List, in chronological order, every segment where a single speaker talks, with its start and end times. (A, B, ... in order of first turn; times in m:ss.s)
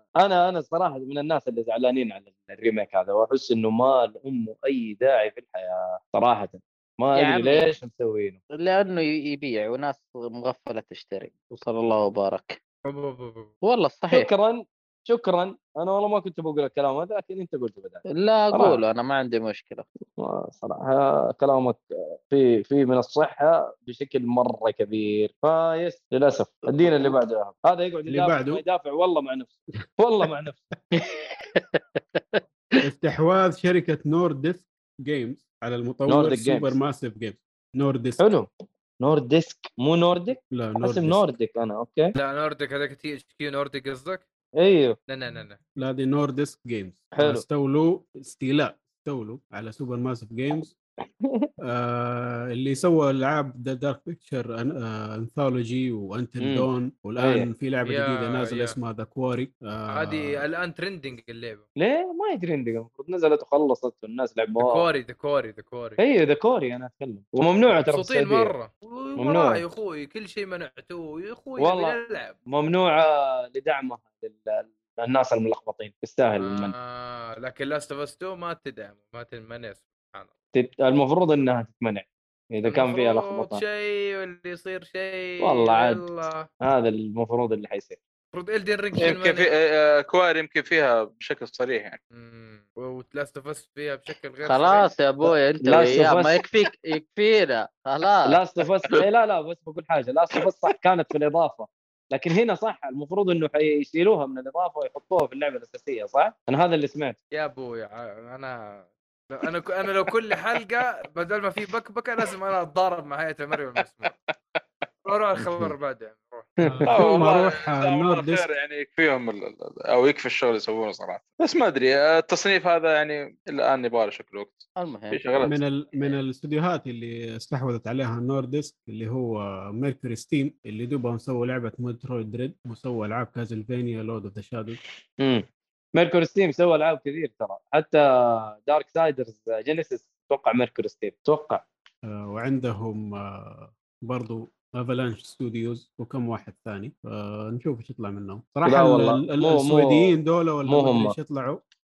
0:00.2-0:08.4 A
0:07.2-0:07.7 B
0:08.6-0:12.6 B
0:12.8-0:13.5 C
0:13.6-0:14.3 B
0:14.1-0:18.8 A
0:18.2-0:19.8 B
0:20.2-0:30.7 A
0:28.1-0:28.6 D
0:30.9-0:32.8 B
0:32.8-0:38.2 D
0:36.1-0:36.8 A
0:38.2-0:38.5 A
0:39.0-0:42.1 A
0:40.5-0:41.3 D
0:42.2-0:44.2 C
0:44.6-0:45.0 A
0:45.1-0:45.6 C
0:45.8-0:50.7 D
0:47.1-0:47.4 A
0:51.2-0:51.5 A
0:51.6-1:00.4 D
0:56.4-0:57.5 A
0:57.8-0:58.8 C
0:59.9-1:01.6 C
1:01.8-1:04.9 A
1:04.6-1:06.0 C
1:06.0-1:08.5 A
1:07.8-1:12.4 C
1:09.2-1:09.6 A
1:11.6-1:12.0 A
1:12.5-1:16.7 A
1:16.4-1:20.3 C
1:20.5-1:23.6 A
1:22.7-1:26.5 C
1:25.4-1:26.0 A
1:26.6-1:28.0 A
1:28.3-1:29.5 C
1:29.0-1:32.0 E
1:32.1-1:34.9 C
1:34.4-1:38.4 B
1:35.6-1:36.4 A
1:38.2-1:47.2 A
1:47.3-1:54.1 C
1:55.0-1:56.5 C
1:55.4-1:55.7 D
1:56.6-1:56.9 A
1:56.6-1:58.5 D
1:56.9-2:05.6 E
2:04.8-2:05.4 B
2:05.4-2:14.8 D
2:15.2-2:21.6 A
2:22.0-2:31.6 D
2:28.6-2:31.2 A